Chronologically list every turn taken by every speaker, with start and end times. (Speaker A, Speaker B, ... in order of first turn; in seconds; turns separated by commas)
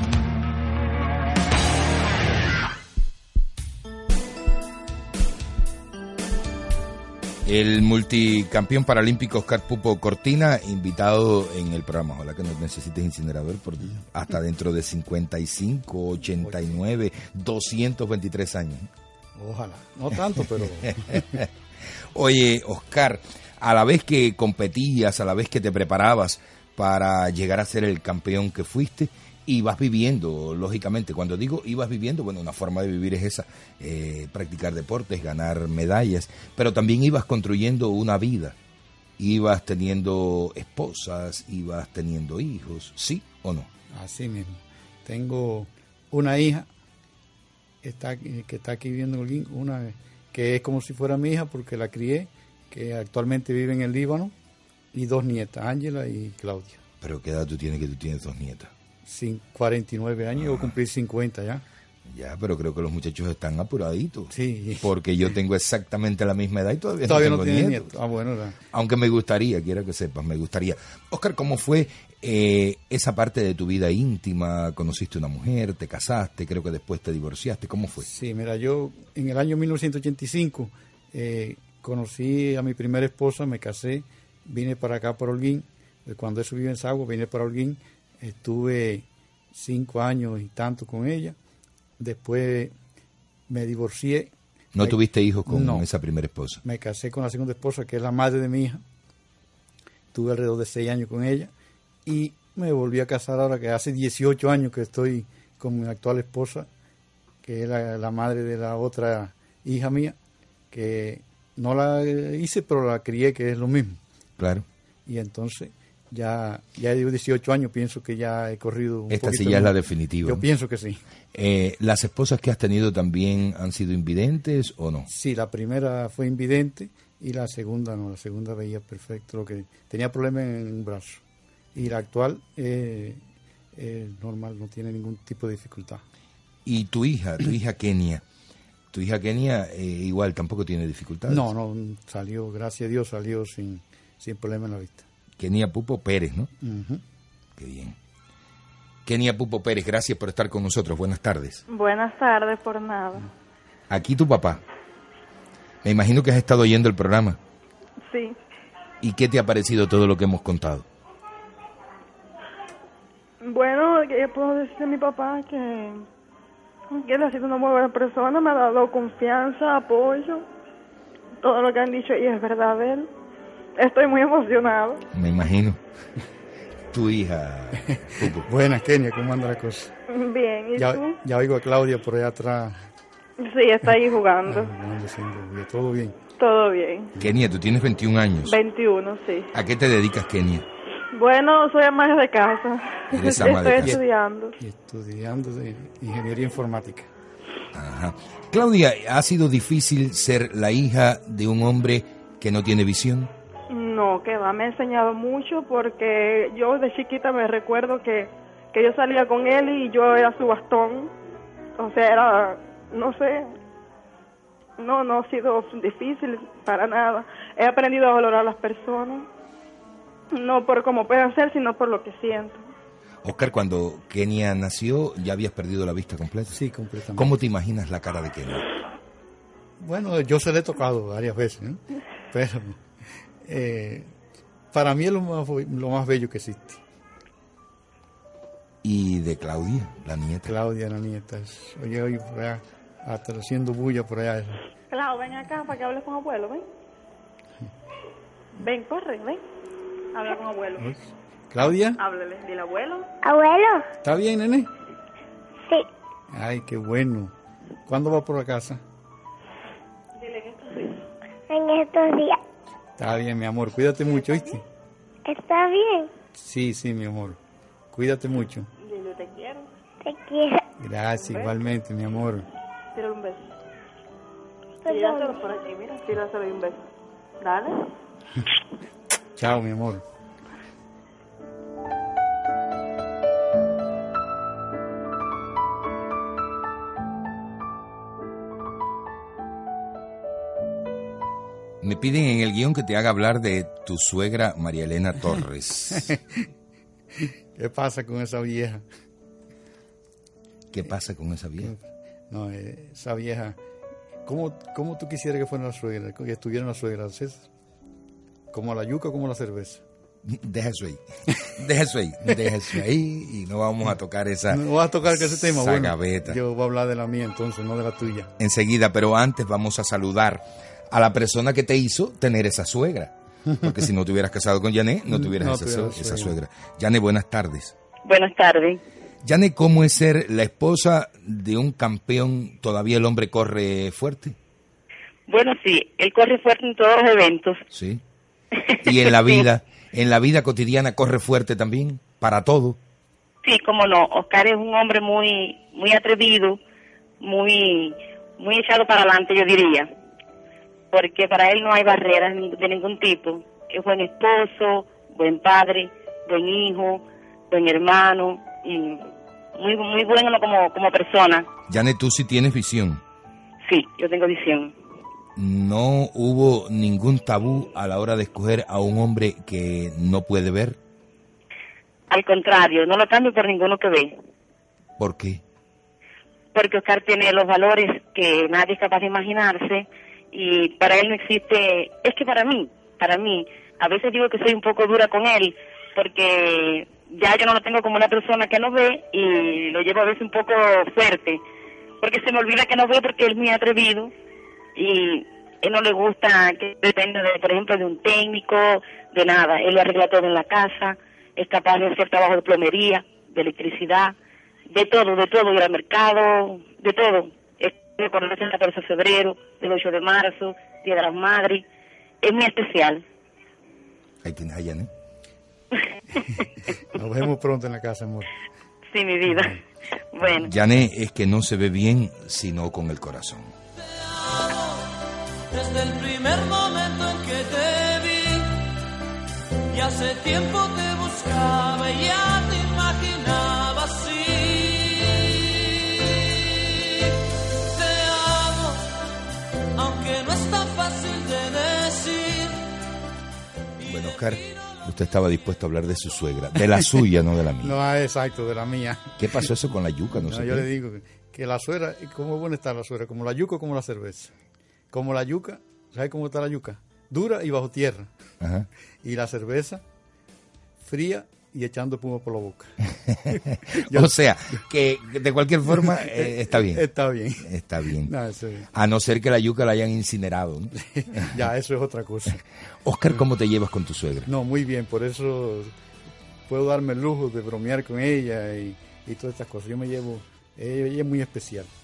Speaker A: 7.5-18.9, Speaker B: 16.4-16.7, Speaker B: 19.4-21.3, Speaker A: 20.9-21.5, Speaker A: 22.1-38.6, Speaker A: 39.2-43.7, Speaker B: 43.9-46.7, Speaker B: 47.8-54.3, Speaker B: 54.9-56.8, Speaker A: 57.0-58.7, Speaker B: 59.1-61.6, Speaker A: 60.4-60.7, Speaker A: 62.1-67.9, Speaker B: 64.3-64.9, Speaker B: 67.0-68.6, Speaker A: 68.7-78.1, Speaker B: 78.0-91.4, Speaker B: 92.0-92.7, Speaker B: 93.5-95.8, Speaker A: 94.7-96.6, Speaker B: 96.6-98.8, Speaker B: 100.1-101.5, Speaker B: 102.1-106.7, Speaker B: 107.4-110.2, Speaker B: 110.7-114.0, Speaker A: 114.4-114.7, Speaker B: 115.1-121.0, Speaker A: 119.1-120.4, Speaker A: 121.3-125.1, Speaker B: 125.1-131.2, Speaker B: 131.7-133.2, Speaker B: 133.8-136.0, Speaker A: 136.7-138.2, Speaker A: 138.9-141.5, Speaker B: 141.3-145.1, Speaker A: 145.4-146.5, Speaker B: 146.6-147.0, Speaker A: 147.6-148.0, Speaker A: 149.1-151.6, Speaker C: 151.7-153.3, Speaker A: 153.9-154.6, Speaker A: 155.8-157.4, Speaker C: 158.1-158.4, Speaker A: 159.0-160.8, Speaker C: 163.4-166.0, Speaker C: 166.9-170.4, Speaker C: 171.4-173.1, Speaker C: 173.8-175.0, Speaker A: 175.1-175.8, Speaker A: 176.9-178.5, Speaker B: 178.0-179.9, Speaker C: 180.1-181.2, Speaker B: 180.8-182.8, Speaker C: 183.4-184.7, Speaker B: 184.4-186.2, Speaker C: 186.4-187.1, Speaker A: 187.2-188.6, Speaker C: 188.4-189.5, Speaker A: 189.5-190.7, Speaker C: 191.1-194.6, Speaker A: 193.1-194.0, Speaker B: 193.4-194.0, Speaker B: 194.6-197.1, Speaker A: 197.7-203.3, Speaker C: 203.7-211.1, Speaker C: 211.8-213.5, Speaker C: 214.8-219.3, Speaker C: 220.3-222.7, Speaker A: 223.2-226.6, Speaker B: 226.5-227.3, Speaker A: 227.1-228.7, Speaker B: 229.8-232.8, Speaker B: 233.4-234.1, Speaker B: 234.7-236.8, Speaker A: 238.8-240.6, Speaker B: 240.5-244.6, Speaker C: 244.9-246.6, Speaker C: 248.6-249.4, Speaker C: 250.1-250.9, Speaker B: 251.5-252.0, Speaker C: 252.0-253.1, Speaker D: 253.2-253.8, Speaker B: 254.0-254.7, Speaker B: 256.3-257.3, Speaker B: 257.9-258.8, Speaker C: 260.2-261.0, Speaker D: 261.5-262.4, Speaker B: 263.0-264.6, Speaker C: 264.1-264.6, Speaker D: 265.3-266.1, Speaker B: 266.4-267.4, Speaker B: 267.9-268.7, Speaker C: 268.8-269.7, Speaker D: 270.0-270.6, Speaker B: 270.8-272.5, Speaker C: 271.2-271.6, Speaker C: 272.9-273.4, Speaker D: 274.9-275.4, Speaker C: 274.9-276.8, Speaker C: 277.4-277.9, Speaker B: 279.4-280.0, Speaker A: 291.8-296.1, Speaker B: 296.1-296.4, Speaker B: 297.6-298.8, Speaker A: 300.7-301.7, Speaker B: 301.6-303.6, Speaker B: 304.3-307.5, Speaker B: 308.5-309.8, Speaker A: 310.3-316.4, Speaker B: 314.5-318.3, Speaker A: 318.4-327.7, Speaker B: 325.1-326.4, Speaker E: 328.1-328.8, Speaker A: 329.2-334.4, Speaker E: 335.3-337.6, Speaker A: 337.7-338.0, Speaker E: 338.6-339.4, Speaker A: 338.8-342.8, Speaker E: 343.4-346.6, Speaker E: 347.2-349.9, Speaker E: 350.9-361.5, Speaker A: 361.7-363.0, Speaker E: 363.6-364.7, Speaker A: 365.4-370.8, Speaker E: 372.1-374.1, Speaker A: 375.0-375.4, Speaker E: 376.5-391.4, Speaker E: 392.0-394.1, Speaker E: 394.8-404.1, Speaker E: 404.7-411.6, Speaker E: 412.2-413.0, Speaker A: 414.2-414.9, Speaker B: 416.9-418.4, Speaker E: 418.9-419.6, Speaker E: 420.1-420.5, Speaker A: 420.4-423.5, Speaker F: 423.9-424.8, Speaker F: 425.5-428.7, Speaker F: 429.7-438.9, Speaker F: 439.8-442.6, Speaker A: 443.9-447.7, Speaker F: 444.0-444.3, Speaker B: 447.6-449.2, Speaker A: 449.2-450.7, Speaker B: 450.2-454.3, Speaker B: 454.9-458.1, Speaker A: 458.4-458.7, Speaker B: 459.0-459.8, Speaker B: 460.8-462.8, Speaker B: 463.3-464.6, Speaker A: 463.8-466.9, Speaker B: 465.8-467.5, Speaker A: 467.4-468.1, Speaker B: 468.1-468.7, Speaker A: 468.7-470.7, Speaker B: 470.8-472.4, Speaker A: 472.8-474.3, Speaker B: 474.3-475.7, Speaker B: 476.5-481.7